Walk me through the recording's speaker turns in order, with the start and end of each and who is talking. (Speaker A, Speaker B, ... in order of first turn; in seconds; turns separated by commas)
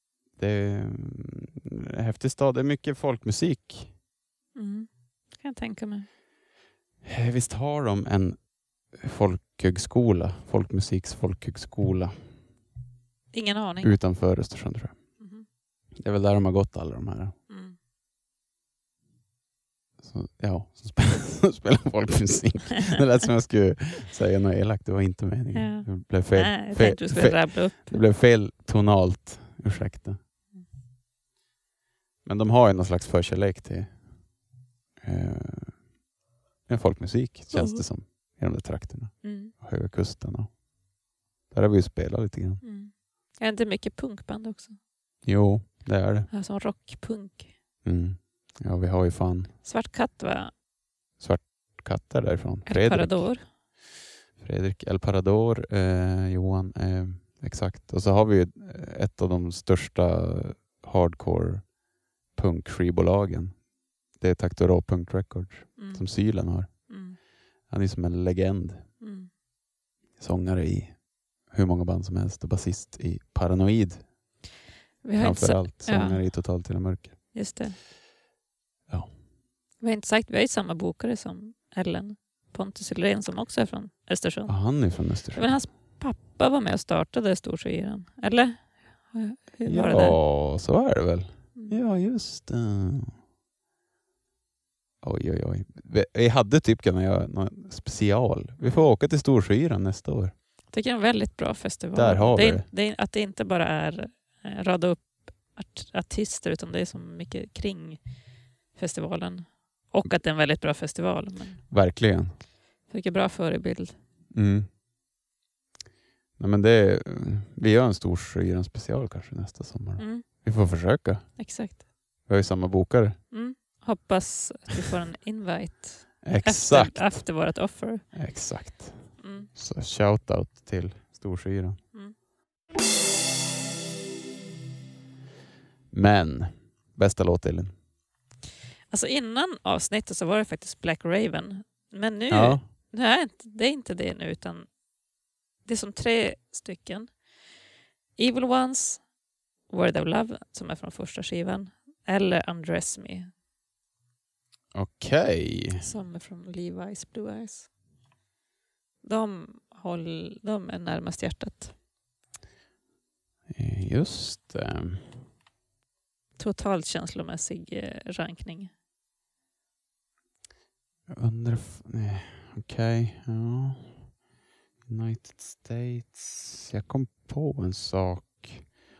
Speaker A: 0.4-4.0, Speaker B: 4.5-6.1, Speaker A: 7.0-12.3, Speaker B: 13.3-13.9, Speaker A: 13.8-15.2, Speaker B: 15.2-15.4, Speaker A: 15.9-17.4, Speaker B: 17.5-17.8, Speaker A: 20.0-30.2, Speaker B: 25.5-28.0, Speaker A: 32.2-34.3, Speaker A: 35.0-35.9, Speaker A: 36.6-40.6, Speaker B: 37.5-37.8, Speaker B: 39.2-39.5, Speaker A: 41.5-42.6, Speaker B: 42.6-44.8, Speaker A: 45.2-46.3, Speaker B: 46.3-47.5, Speaker A: 47.8-49.5, Speaker B: 49.6-50.5, Speaker A: 51.2-53.6, Speaker B: 52.7-53.5, Speaker A: 54.4-61.7, Speaker A: 62.3-68.9, Speaker B: 65.8-67.2, Speaker B: 69.0-69.3, Speaker A: 70.2-74.2, Speaker B: 75.0-76.2, Speaker A: 75.2-77.3, Speaker B: 77.3-77.8, Speaker B: 79.8-90.2, Speaker A: 84.5-85.6, Speaker A: 89.6-93.1, Speaker A: 95.0-100.3, Speaker B: 98.6-98.9, Speaker B: 100.7-108.1, Speaker A: 101.9-102.7, Speaker B: 108.7-111.8, Speaker A: 111.7-112.4, Speaker B: 112.9-114.0, Speaker A: 114.3-114.7, Speaker A: 116.4-121.6, Speaker B: 120.0-120.4, Speaker B: 121.4-121.8, Speaker A: 122.2-123.2, Speaker B: 123.3-128.3, Speaker A: 126.2-131.8, Speaker B: 129.2-129.5, Speaker A: 135.9-137.8, Speaker B: 138.9-144.8, Speaker A: 142.3-142.6, Speaker B: 145.6-147.3, Speaker B: 148.2-149.1, Speaker B: 149.7-153.3, Speaker A: 154.7-155.8, Speaker B: 155.8-157.7, Speaker B: 159.0-161.7, Speaker A: 163.5-165.2, Speaker B: 166.4-168.7, Speaker A: 171.1-174.2, Speaker A: 174.8-178.7